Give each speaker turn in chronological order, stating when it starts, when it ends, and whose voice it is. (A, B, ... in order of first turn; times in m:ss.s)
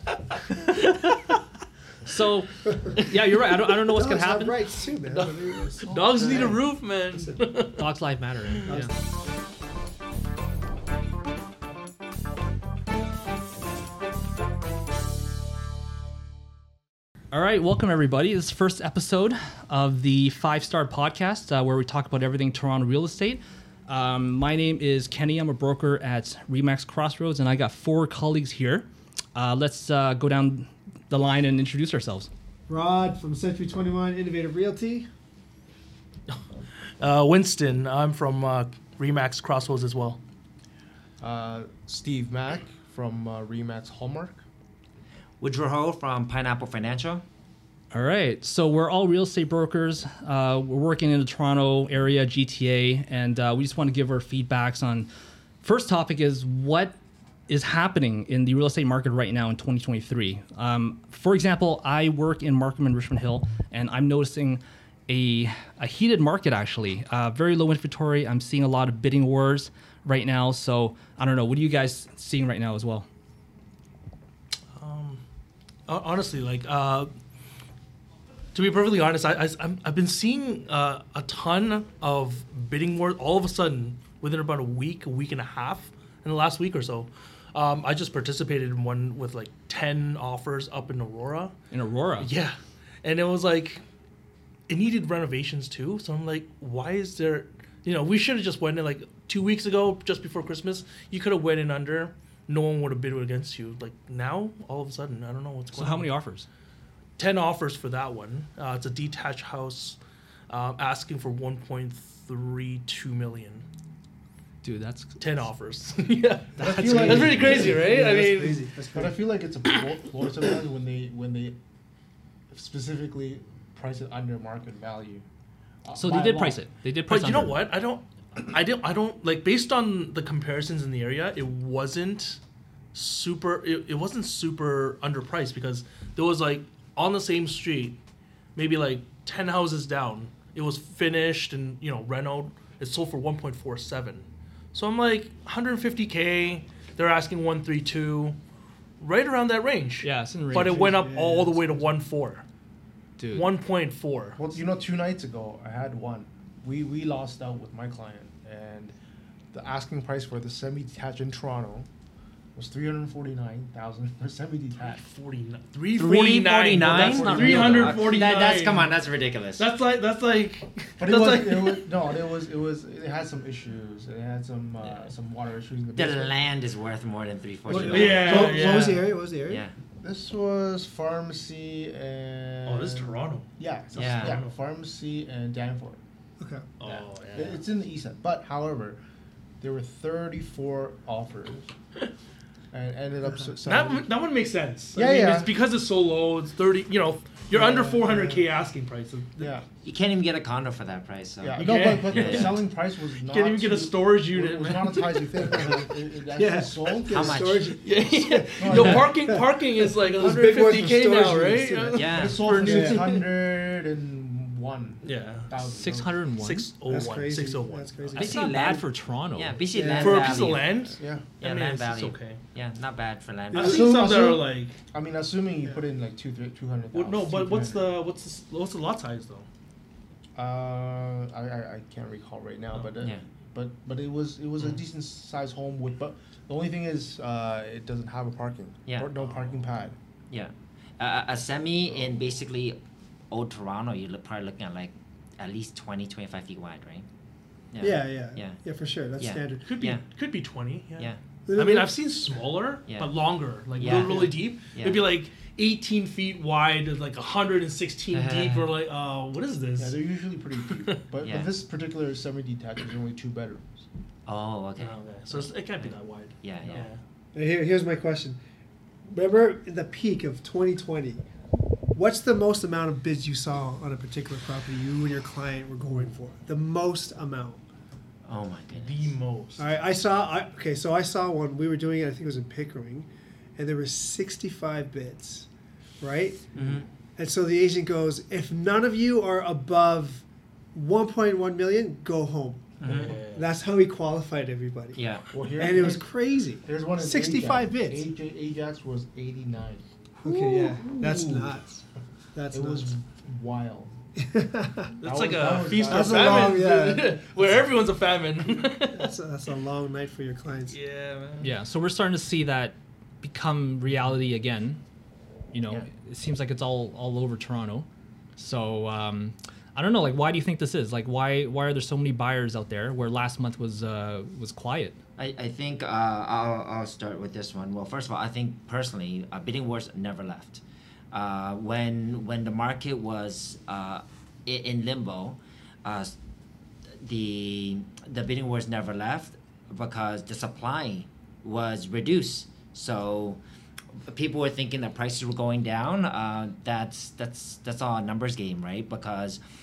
0:00.7-0:00.9 A
0:00.9-0:01.2 B
0:02.0-0:04.7 B
0:03.9-0:06.6 C
0:05.1-0:07.8 A
0:07.8-0:08.9 B
0:08.7-0:08.9 C
0:17.3-0:32.3 B
0:32.7-0:35.1 C
0:37.0-0:40.2 A
0:41.2-0:44.4 D
0:45.4-0:47.2 E
0:47.9-0:55.1 B
0:55.6-0:57.0 B
0:57.5-1:13.1 B
1:14.8-1:15.2 A
1:15.9-1:17.1 A
1:18.6-1:31.5 A
1:31.7-1:32.3 B
1:32.2-1:33.8 A
1:34.7-1:46.1 A
1:45.7-1:46.5 B
1:47.2-1:50.0 A
1:50.5-1:53.6 A
1:54.6-1:55.4 B
1:55.2-1:58.7 A
1:56.6-1:59.2 C
1:56.6-1:58.0 D
1:58.9-2:01.6 D
2:02.5-2:05.2 D
2:05.8-2:06.6 D
2:06.0-2:07.6 B
2:07.1-2:12.4 A
2:12.9-2:18.0 A
2:18.6-2:28.4 A
2:29.0-2:32.4 A
2:30.0-2:30.9 B
2:30.5-2:31.7 C
2:33.2-2:33.5 B
2:33.3-2:34.4 A
2:34.4-2:39.0 D
2:39.5-2:41.9 D
2:42.6-2:45.0 D
2:44.8-2:48.9 A
2:45.9-2:49.7 E
2:46.8-2:48.0 B
2:47.0-2:47.6 D
2:49.6-2:51.9 A
2:51.0-2:56.4 D
2:54.8-2:55.1 A
2:56.0-2:58.8 E
2:57.7-2:59.6 C
2:57.7-2:58.9 D
2:57.9-2:59.1 A
2:59.4-2:59.7 E
3:00.0-3:06.0 D
3:02.6-3:04.5 A
3:03.9-3:04.4 E
3:06.4-3:06.7 C
3:06.8-3:07.6 A
3:06.8-3:09.0 D
3:09.6-3:11.7 D
3:12.7-3:14.1 D
3:13.6-3:19.6 A
3:15.0-3:15.5 D
3:17.5-3:18.5 D
3:19.4-3:19.7 D
3:19.8-3:22.6 E
3:21.4-3:27.6 D
3:21.6-3:22.6 A
3:23.2-3:25.5 A
3:25.5-3:29.4 C
3:27.1-3:27.8 E
3:27.8-3:33.2 A
3:28.6-3:29.2 D
3:30.0-3:33.2 C
3:30.2-3:31.4 D
3:32.0-3:32.4 E
3:32.0-3:36.2 D
3:35.0-3:35.5 A
3:35.6-3:36.7 B
3:36.4-3:38.3 A
3:36.9-3:38.4 C
3:38.2-3:39.6 B
3:38.2-3:40.8 E
3:39.7-3:40.4 C
3:39.9-3:42.4 A
3:40.9-3:41.2 D
3:41.4-3:44.0 E
3:43.5-3:43.9 C
3:43.5-3:44.8 A
3:43.6-3:47.9 D
3:46.9-3:49.5 A
3:50.4-4:00.0 D
3:58.9-3:59.1 E
4:00.3-4:02.8 E
4:03.3-4:07.1 E
4:07.7-4:08.6 E
4:07.8-4:09.7 C
4:09.2-4:10.0 E
4:09.6-4:20.0 A
4:11.5-4:11.9 C
4:12.9-4:13.2 E
4:13.8-4:15.1 E
4:18.1-4:18.7 E
4:19.8-4:23.9 D
4:20.7-4:21.0 A
4:21.2-4:21.5 E
4:24.3-4:26.9 E
4:24.8-4:27.0 A
4:27.3-4:28.4 C
4:29.1-4:31.2 C
4:31.9-4:37.6 C
4:38.3-4:39.2 E
4:38.8-4:39.7 A
4:39.6-4:45.5 C
4:46.0-4:46.5 C
4:46.6-4:46.9 E
4:47.2-4:52.7 C
4:52.8-4:53.5 A
4:52.8-4:53.2 E
4:53.3-4:55.0 C
4:55.0-4:55.3 E
4:55.3-5:01.6 D
4:55.6-4:58.1 C
5:00.2-5:01.8 C
5:02.3-5:03.0 C
5:02.5-5:04.0 D
5:04.2-5:05.0 C
5:05.0-5:06.6 D
5:05.0-5:09.1 A
5:05.7-5:07.3 C
5:08.9-5:10.8 C
5:10.7-5:11.6 A
5:11.4-5:14.8 B
5:15.5-5:25.0 B
5:25.2-5:36.2 E
5:37.0-5:43.4 E
5:44.0-5:49.4 E